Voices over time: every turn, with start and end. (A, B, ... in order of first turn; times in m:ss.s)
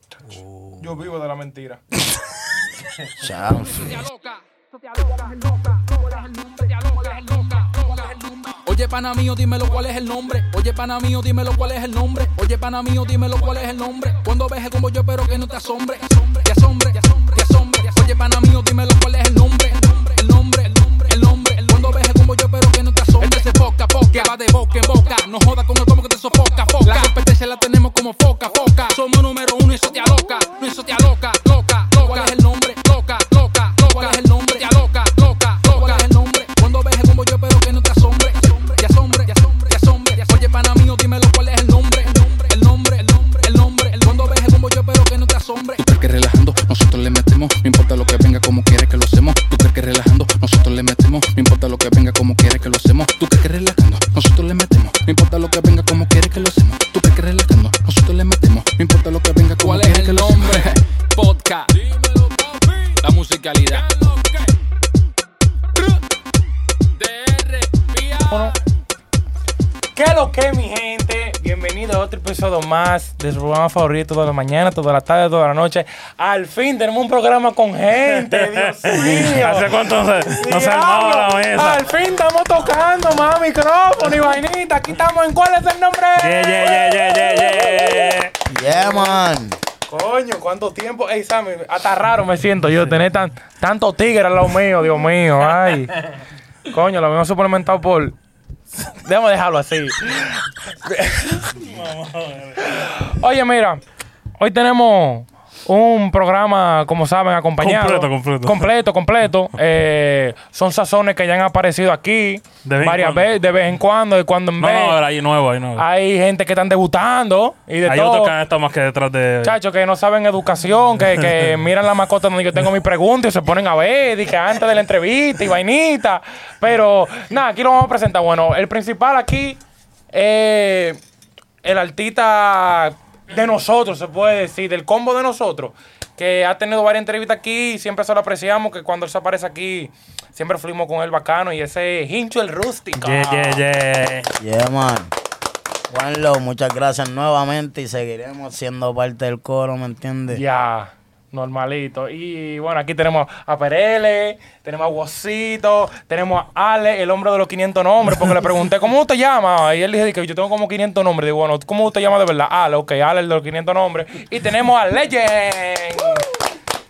0:00.2-0:00.9 A
0:00.8-0:01.8 B
0:03.2-0:04.0 A
0:03.6-0:45.8 C
0:45.8-1:00.8 D
0:59.6-1:04.5 C
1:07.0-1:08.5 C
1:08.3-1:08.5 B
1:09.9-1:19.7 B
1:18.3-1:21.9 E
1:20.4-1:29.2 B
1:26.2-1:28.3 E
1:28.5-1:29.6 A
1:29.9-1:35.9 B
1:36.7-1:38.2 B
1:39.0-1:41.5 B
1:41.6-1:42.6 E
1:42.6-1:43.8 B
1:44.4-1:55.0 B
1:47.6-1:48.7 E
1:52.6-1:53.3 E
1:54.6-1:55.8 E
1:55.8-1:58.3 B
1:57.8-1:59.5 E
1:59.4-2:09.6 B
2:10.1-2:11.0 B
2:11.6-2:23.6 B
2:23.0-2:24.3 E
2:24.4-2:25.1 A
2:25.9-2:30.4 A
2:30.3-2:46.3 B